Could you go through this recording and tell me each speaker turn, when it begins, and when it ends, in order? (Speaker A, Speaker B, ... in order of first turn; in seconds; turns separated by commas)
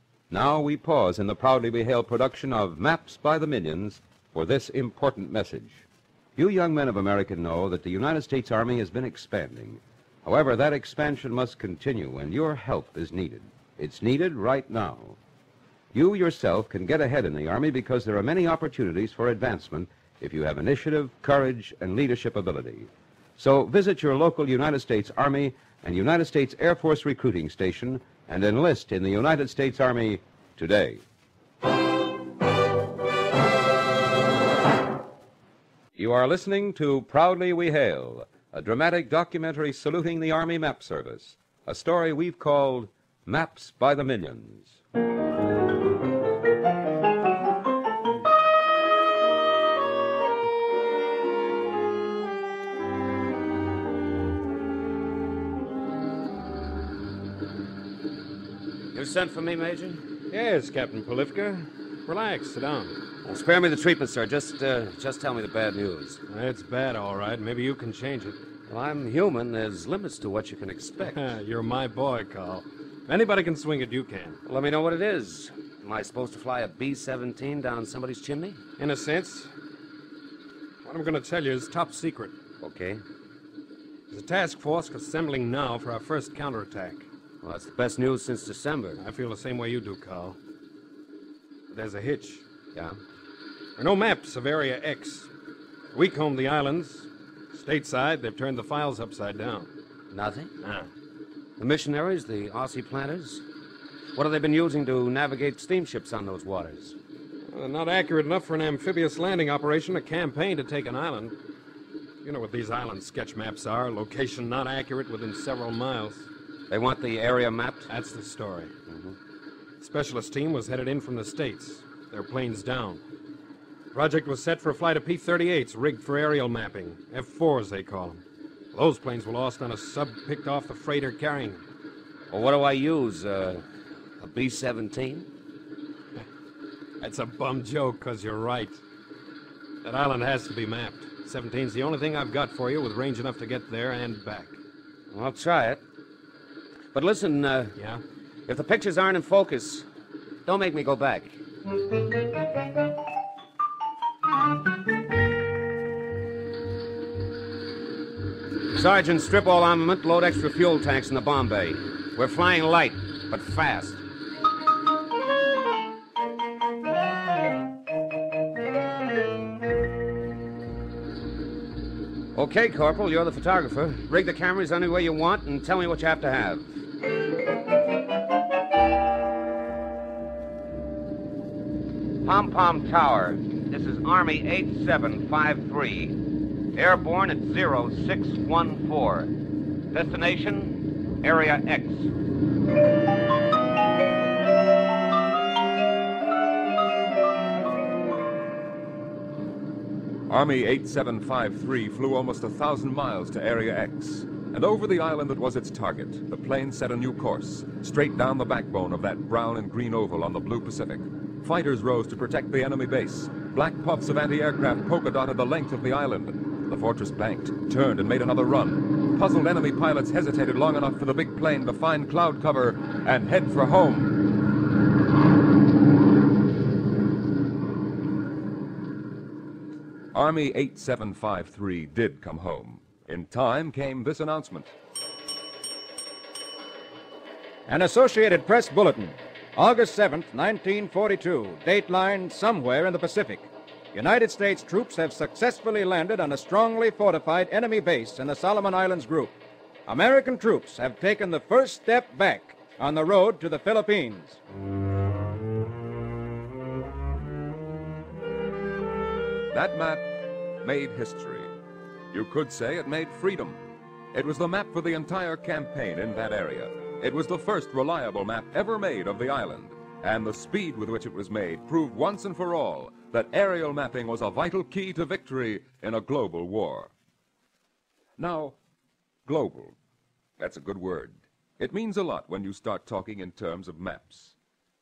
Speaker A: 0.3-15.2, Speaker A: 15.9-31.0, Speaker A: 36.0-44.8, Speaker B: 58.9-60.0, Speaker C: 60.3-63.0, Speaker B: 63.2-66.2, Speaker C: 66.3-68.4, Speaker B: 68.7-71.2, Speaker C: 71.0-74.4, Speaker B: 74.4-78.6, Speaker C: 78.8-79.5, Speaker C: 80.8-82.3, Speaker B: 82.6-83.0, Speaker C: 84.1-87.1, Speaker B: 87.4-89.0, Speaker C: 89.0-90.4, Speaker C: 91.7-92.4, Speaker C: 93.8-95.3, Speaker C: 95.9-99.7, Speaker B: 100.1-100.5, Speaker B: 101.6-103.4, Speaker B: 104.1-107.0, Speaker C: 107.5-111.3, Speaker C: 112.2-116.3, Speaker B: 116.7-117.9, Speaker C: 117.9-118.7, Speaker C: 119.8-123.0, Speaker C: 123.9-128.2, Speaker C: 128.7-131.6, Speaker B: 132.3-133.6, Speaker B: 134.2-135.3, Speaker C: 137.0-138.8, Speaker C: 139.8-144.6, Speaker B: 145.1-145.8, Speaker B: 146.9-147.8, Speaker B: 148.4-149.9, Speaker B: 150.4-151.4, Speaker B: 158.7-164.0, Speaker B: 172.3-176.8, Speaker B: 182.2-186.2, Speaker B: 186.7-189.3, Speaker B: 189.9-192.1, Speaker D: 200.3-224.2, Speaker D: 230.1-234.7, Speaker E: 237.7-254.4, Speaker D: 259.5-261.5, Speaker D: 262.1-263.6, Speaker D: 264.1-276.9, Speaker D: 278.2-278.6, Speaker D: 279.2-279.7, Speaker D: 280.4-284.4